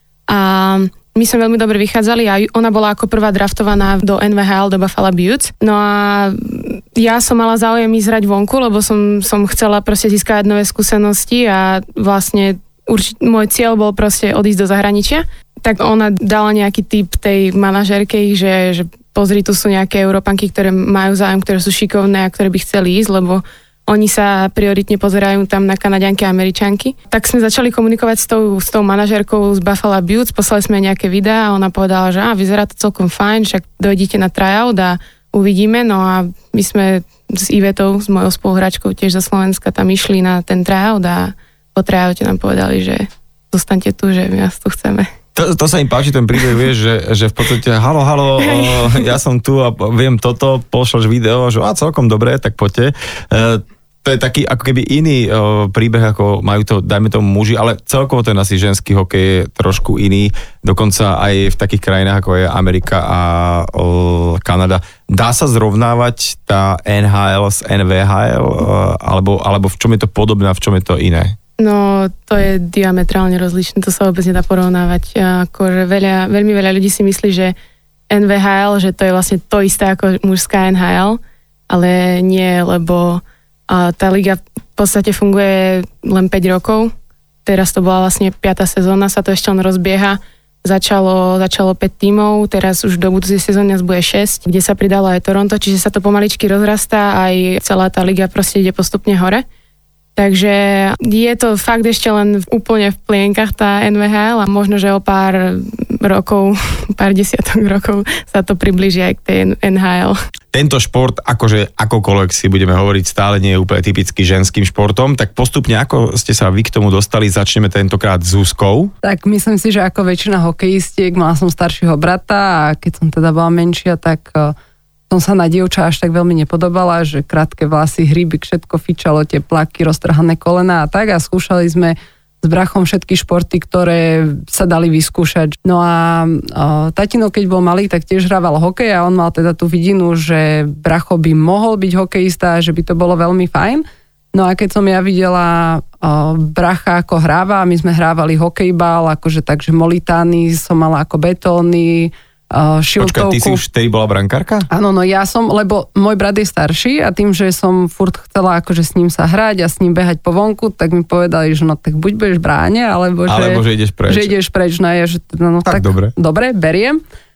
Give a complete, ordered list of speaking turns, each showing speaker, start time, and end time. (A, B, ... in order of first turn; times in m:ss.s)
0:00.3-0:45.1 A
0:45.4-1:11.4 B
0:48.4-0:49.1 A
1:11.6-1:17.6 A
1:18.1-1:21.2 A
1:21.7-1:26.9 A
1:27.5-1:39.4 A
1:40.2-1:50.2 A
1:50.5-1:58.9 B
1:59.0-2:04.6 C
2:05.1-2:33.6 C
2:33.0-2:34.7 B
2:34.7-2:47.0 C
2:43.3-2:44.3 B
2:45.7-2:46.1 B